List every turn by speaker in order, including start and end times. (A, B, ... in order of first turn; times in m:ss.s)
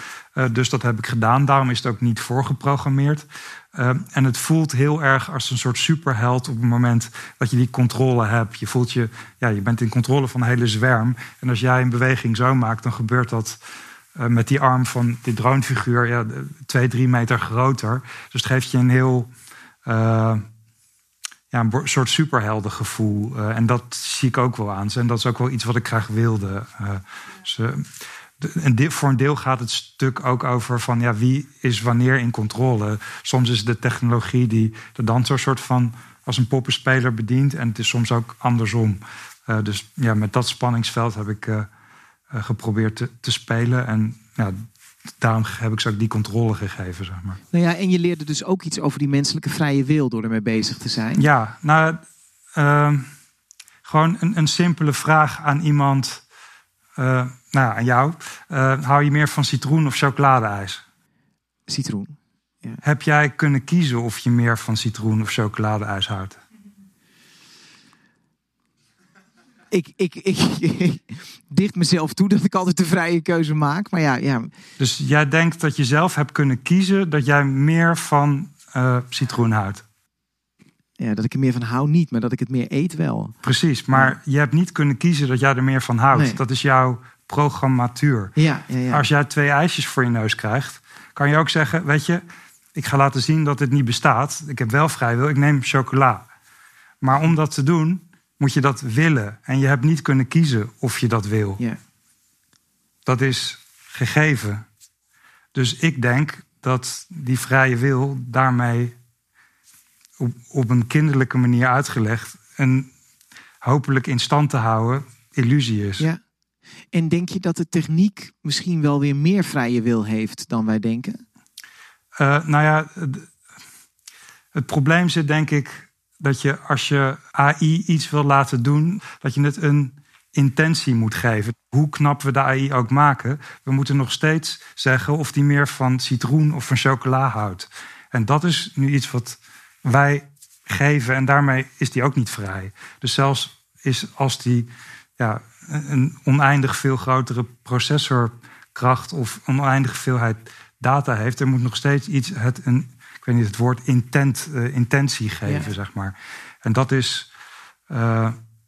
0:00.4-0:13.6 A
0:14.1-0:19.3 A
0:19.8-0:20.4 A
0:21.5-0:41.7 A
0:42.3-0:44.6 A
0:45.2-0:47.4 A
0:47.5-0:51.2 B
0:51.1-0:52.0 A
0:52.5-0:53.1 A
0:53.8-0:56.2 A
0:57.0-1:00.8 A
1:01.7-1:02.8 B
1:02.8-1:06.4 A
1:09.7-1:14.5 B
1:14.8-1:19.8 A
1:21.0-1:23.4 B
1:23.4-1:28.3 A
1:26.1-1:26.4 B
1:28.4-1:29.0 B
1:28.9-1:32.2 A
1:32.7-1:36.3 A
1:37.0-1:41.6 A
1:43.0-1:44.6 A
1:45.5-1:48.9 A
1:50.2-1:52.9 A
1:53.6-1:56.0 A
1:56.9-2:01.2 B
2:02.2-2:03.3 A
2:04.5-2:37.3 A
2:35.4-2:35.7 B
2:37.9-2:38.4 A